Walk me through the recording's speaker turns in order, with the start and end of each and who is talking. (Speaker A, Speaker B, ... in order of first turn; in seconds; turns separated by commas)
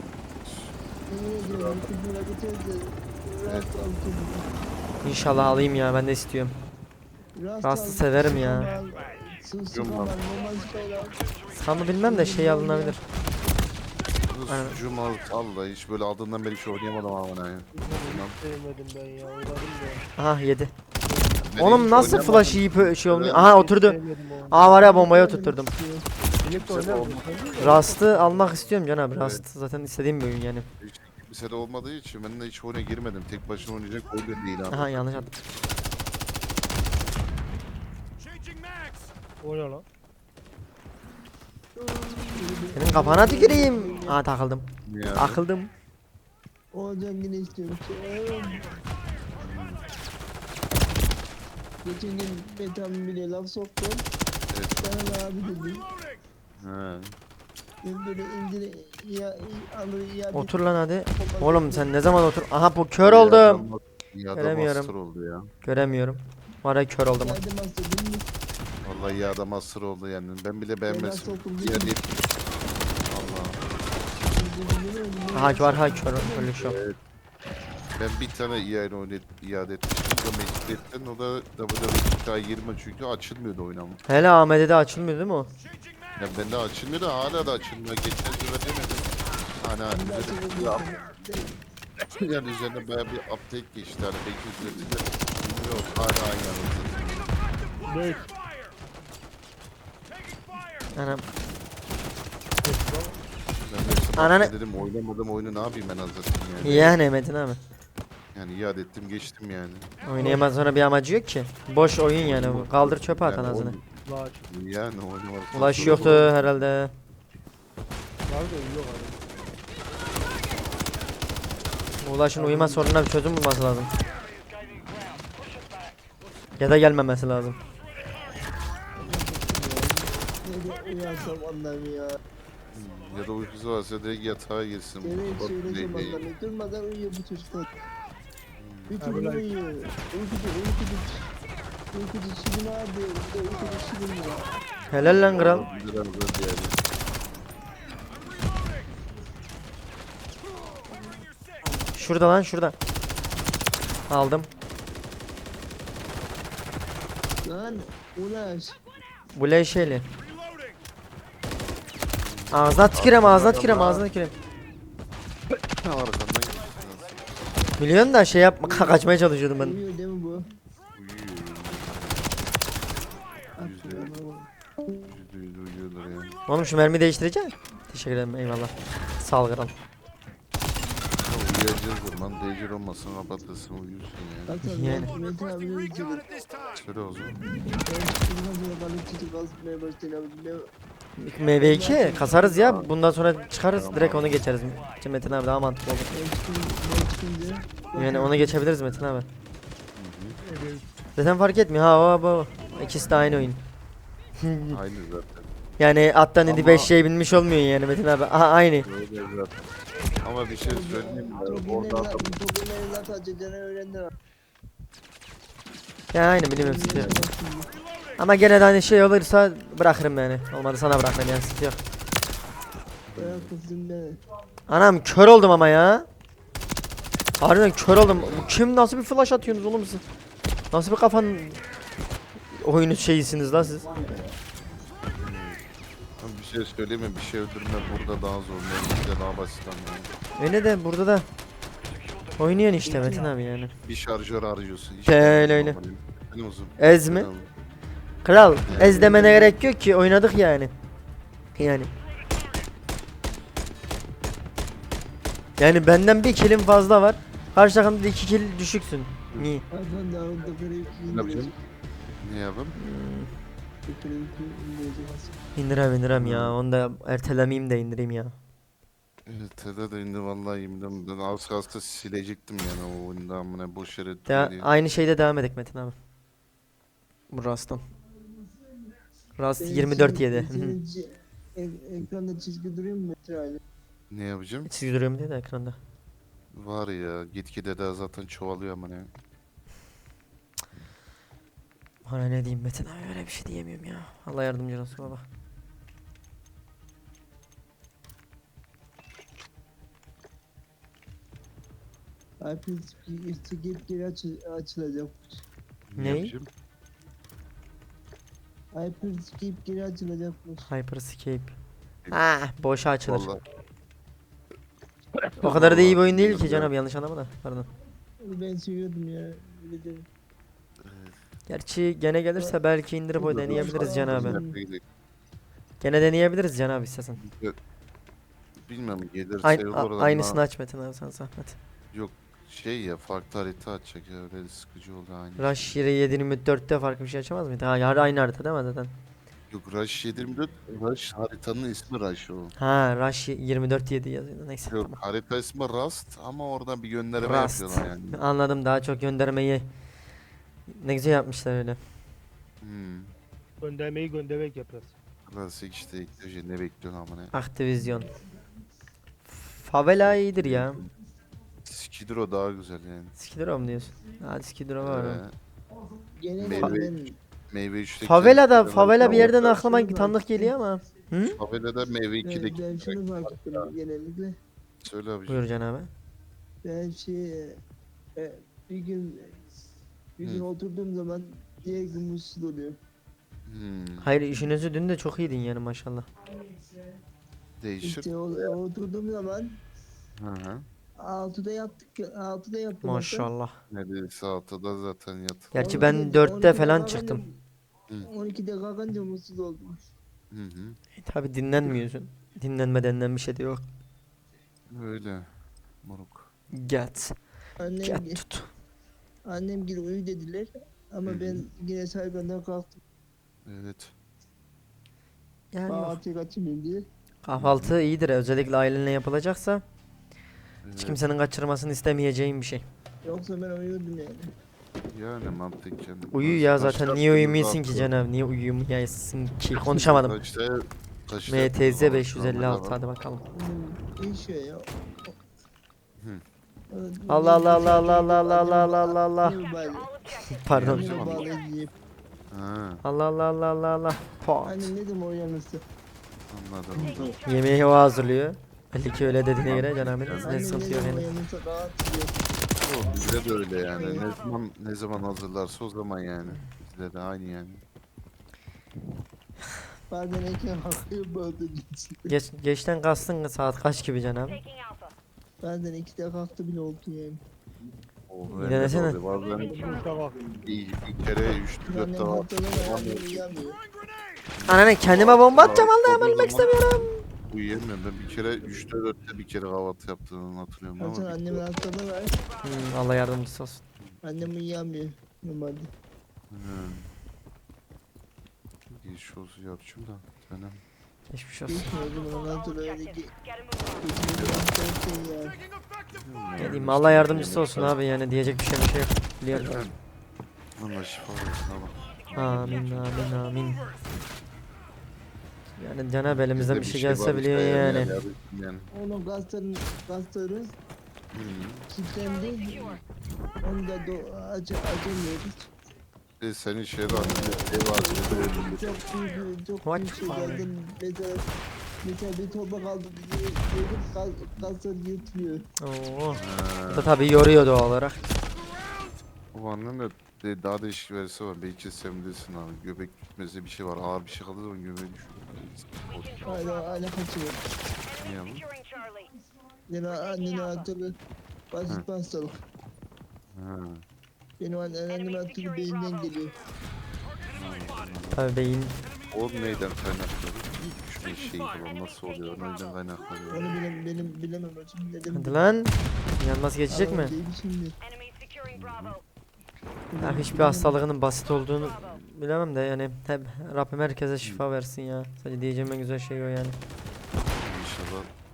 Speaker A: 0.4-0.7, Speaker B: 1.1-4.5, Speaker A: 1.5-1.9, Speaker A: 3.5-3.7, Speaker C: 5.0-6.6, Speaker B: 7.4-11.2, Speaker C: 7.6-8.7, Speaker A: 9.7-10.2, Speaker C: 11.5-13.0, Speaker B: 12.0-13.0, Speaker A: 14.3-18.4, Speaker C: 14.5-14.8, Speaker D: 17.7-20.1, Speaker C: 20.2-20.7, Speaker D: 21.1-22.5, Speaker A: 21.4-23.4, Speaker C: 21.6-24.0, Speaker D: 23.3-24.7, Speaker C: 24.5-25.7, Speaker B: 24.5-26.1, Speaker D: 26.4-28.8, Speaker A: 26.5-27.8, Speaker C: 27.6-30.7, Speaker A: 29.2-29.4, Speaker A: 30.8-35.3, Speaker C: 34.7-35.4, Speaker D: 39.4-39.9, Speaker B: 41.9-44.2, Speaker C: 42.7-45.7, Speaker A: 44.9-45.4, Speaker B: 46.7-48.6, Speaker A: 49.4-49.8, Speaker B: 51.8-54.0, Speaker A: 54.5-54.9, Speaker B: 54.8-55.8, Speaker A: 56.6-57.1, Speaker B: 57.8-60.5, Speaker C: 60.3-63.6, Speaker B: 61.1-61.9, Speaker A: 63.0-65.5, Speaker C: 64.3-64.9, Speaker C: 65.6-67.4, Speaker B: 67.2-68.3, Speaker A: 68.8-72.3, Speaker B: 70.9-72.0, Speaker A: 73.1-73.6, Speaker B: 74.3-76.6, Speaker C: 75.3-76.8, Speaker A: 76.6-77.0, Speaker A: 78.0-84.0, Speaker C: 84.1-85.5, Speaker A: 86.2-90.9, Speaker B: 89.9-91.5, Speaker A: 92.2-97.3, Speaker D: 97.8-98.3, Speaker C: 100.9-101.2, Speaker D: 102.6-103.2, Speaker A: 103.6-107.0, Speaker C: 104.2-104.5, Speaker C: 106.6-107.6, Speaker A: 108.3-109.9, Speaker C: 110.0-113.8, Speaker D: 110.2-110.5, Speaker A: 112.2-113.9, Speaker D: 114.0-114.5, Speaker A: 114.5-116.3, Speaker C: 115.5-116.9, Speaker D: 115.8-116.3, Speaker D: 118.3-119.2, Speaker C: 122.0-123.9, Speaker B: 122.4-122.9, Speaker C: 126.6-127.6, Speaker B: 129.0-132.2, Speaker A: 132.7-136.3, Speaker B: 135.0-137.7, Speaker A: 138.6-139.0, Speaker B: 138.9-141.3, Speaker D: 139.0-139.4, Speaker B: 141.9-144.4, Speaker C: 144.9-145.7, Speaker A: 144.9-146.8, Speaker C: 151.9-152.8, Speaker C: 154.1-154.5, Speaker B: 157.4-158.8, Speaker C: 159.4-160.1, Speaker A: 162.2-164.1, Speaker C: 162.5-164.3, Speaker A: 165.5-167.2, Speaker C: 167.8-169.8, Speaker B: 168.6-169.1, Speaker B: 169.6-170.5, Speaker A: 170.9-172.4, Speaker B: 173.6-174.5, Speaker A: 173.6-174.1, Speaker A: 175.1-176.4, Speaker C: 176.5-179.7, Speaker A: 181.2-184.6, Speaker B: 184.5-186.3, Speaker C: 184.6-185.1, Speaker A: 186.7-187.4, Speaker B: 187.8-190.7, Speaker C: 191.2-196.1, Speaker B: 191.6-192.8, Speaker A: 192.6-192.9, Speaker A: 193.7-194.4, Speaker B: 196.1-198.6, Speaker C: 198.0-199.3, Speaker A: 200.0-200.4, Speaker D: 200.4-200.9, Speaker C: 201.2-203.6, Speaker C: 204.4-204.8, Speaker A: 204.7-205.5, Speaker C: 205.8-208.9, Speaker A: 206.4-206.9, Speaker A: 208.8-209.6, Speaker A: 210.2-212.3, Speaker B: 210.7-214.1, Speaker C: 216.1-217.3, Speaker B: 216.5-217.7, Speaker C: 218.2-221.8, Speaker A: 223.1-223.5, Speaker B: 223.2-224.2, Speaker C: 224.7-226.1, Speaker C: 227.4-230.0, Speaker A: 228.0-228.6, Speaker C: 230.7-231.6, Speaker C: 232.5-234.1, Speaker A: 235.2-235.6, Speaker A: 236.2-240.1, Speaker C: 240.4-241.3, Speaker C: 242.4-243.7, Speaker B: 242.8-243.3, Speaker A: 243.8-247.5, Speaker C: 245.1-245.8, Speaker C: 246.8-247.3, Speaker C: 248.2-250.7, Speaker A: 248.7-249.2, Speaker B: 248.7-249.6, Speaker C: 251.6-251.9, Speaker C: 255.6-259.6, Speaker B: 259.7-261.6, Speaker A: 261.1-261.5, Speaker A: 262.2-262.8, Speaker C: 262.8-263.3, Speaker B: 263.9-265.4, Speaker C: 265.6-268.4, Speaker A: 266.2-266.6, Speaker A: 269.3-274.7, Speaker C: 274.3-275.9, Speaker C: 277.3-277.9, Speaker C: 279.4-280.8, Speaker B: 279.6-283.6, Speaker A: 284.1-284.7, Speaker C: 284.7-285.8, Speaker A: 286.5-289.1, Speaker C: 292.1-295.2, Speaker B: 302.4-305.4, Speaker A: 305.9-306.5, Speaker C: 306.0-306.3, Speaker B: 308.7-310.7, Speaker C: 310.7-311.6, Speaker C: 312.1-313.3, Speaker A: 313.1-313.4, Speaker A: 315.2-316.7, Speaker C: 315.4-317.7, Speaker B: 318.2-320.1, Speaker A: 320.8-321.2, Speaker C: 321.5-324.4, Speaker B: 323.2-324.6, Speaker A: 323.2-324.8, Speaker C: 325.8-327.2, Speaker A: 327.2-327.6, Speaker A: 328.7-330.4, Speaker C: 329.4-331.6, Speaker A: 331.9-335.8, Speaker C: 335.4-338.9, Speaker A: 339.5-342.5, Speaker C: 342.6-345.0, Speaker A: 344.7-348.2, Speaker C: 347.2-349.7, Speaker C: 350.7-351.8, Speaker A: 352.6-353.1, Speaker D: 353.6-354.9, Speaker A: 355.3-357.3, Speaker C: 357.3-358.1, Speaker C: 359.3-360.8, Speaker A: 360.0-360.9, Speaker A: 361.6-363.2, Speaker C: 363.2-365.2, Speaker A: 364.8-365.4, Speaker B: 366.2-367.2, Speaker A: 366.4-366.9, Speaker A: 367.5-369.5, Speaker C: 368.0-371.4, Speaker B: 369.0-370.6, Speaker A: 371.4-373.7, Speaker B: 372.2-374.4, Speaker A: 374.8-375.4, Speaker C: 375.3-375.9, Speaker B: 376.6-377.6, Speaker B: 378.2-379.4, Speaker B: 380.2-382.8, Speaker A: 383.5-384.1, Speaker C: 384.0-386.1, Speaker A: 387.6-388.5, Speaker B: 387.8-389.6, Speaker A: 390.2-390.7, Speaker B: 391.0-393.3, Speaker C: 392.8-393.6, Speaker A: 393.7-395.6, Speaker C: 395.5-397.2, Speaker B: 395.6-397.4, Speaker B: 398.1-399.8, Speaker A: 400.3-400.8, Speaker C: 401.0-403.6, Speaker A: 404.7-405.3, Speaker A: 405.8-406.3, Speaker C: 406.5-407.1, Speaker B: 407.6-408.2, Speaker C: 407.8-408.5, Speaker B: 409.3-412.8, Speaker A: 411.1-411.4, Speaker A: 413.5-413.9, Speaker C: 415.5-416.0, Speaker B: 415.7-416.9, Speaker C: 417.2-419.6, Speaker A: 417.3-417.7, Speaker A: 420.6-421.0, Speaker C: 420.8-422.6, Speaker B: 423.0-424.3, Speaker A: 424.9-427.9, Speaker C: 426.1-430.1, Speaker A: 429.5-432.8, Speaker C: 431.3-433.2, Speaker B: 433.3-435.1, Speaker B: 436.7-439.9, Speaker C: 437.1-439.4, Speaker C: 440.2-440.9, Speaker A: 440.5-441.3, Speaker B: 440.6-441.7, Speaker A: 442.3-442.8, Speaker C: 442.8-444.7, Speaker B: 444.4-445.6, Speaker A: 446.3-447.2, Speaker B: 446.8-447.2, Speaker C: 447.2-451.1, Speaker A: 449.5-450.3, Speaker B: 450.2-452.1, Speaker A: 452.6-457.6, Speaker B: 453.7-454.1, Speaker B: 459.9-462.1, Speaker C: 462.1-464.4, Speaker B: 465.4-467.2, Speaker A: 468.1-469.6, Speaker C: 468.3-469.0, Speaker D: 469.3-470.3, Speaker A: 470.4-473.2, Speaker B: 471.7-473.6, Speaker A: 474.4-481.4, Speaker C: 474.5-477.0, Speaker B: 480.8-482.2, Speaker C: 482.4-483.6, Speaker B: 484.0-485.7, Speaker A: 486.3-486.9, Speaker A: 488.7-490.6, Speaker C: 491.1-491.8, Speaker B: 491.5-493.1, Speaker B: 493.8-495.4, Speaker A: 494.1-494.5, Speaker A: 496.0-497.8, Speaker C: 496.4-499.6, Speaker A: 499.3-499.7, Speaker A: 500.6-503.0, Speaker C: 502.1-503.7, Speaker C: 505.6-507.9, Speaker A: 506.1-508.7, Speaker B: 508.7-510.5, Speaker A: 511.1-511.7, Speaker B: 511.7-512.8, Speaker B: 513.4-515.5, Speaker A: 516.2-518.7, Speaker B: 516.9-521.2, Speaker C: 519.6-520.4, Speaker B: 521.8-525.4, Speaker C: 525.6-528.0, Speaker A: 526.1-526.9, Speaker A: 529.3-536.5, Speaker B: 536.2-537.4, Speaker A: 538.0-538.5, Speaker B: 539.7-540.9, Speaker B: 541.5-542.4, Speaker A: 543.3-543.9, Speaker B: 544.4-546.3, Speaker A: 547.3-548.2, Speaker C: 548.1-548.8, Speaker A: 549.1-553.6, Speaker B: 553.3-555.4, Speaker C: 555.1-557.1, Speaker B: 556.7-557.8, Speaker A: 558.5-559.0, Speaker B: 559.9-560.8, Speaker C: 560.0-566.6, Speaker A: 567.3-568.1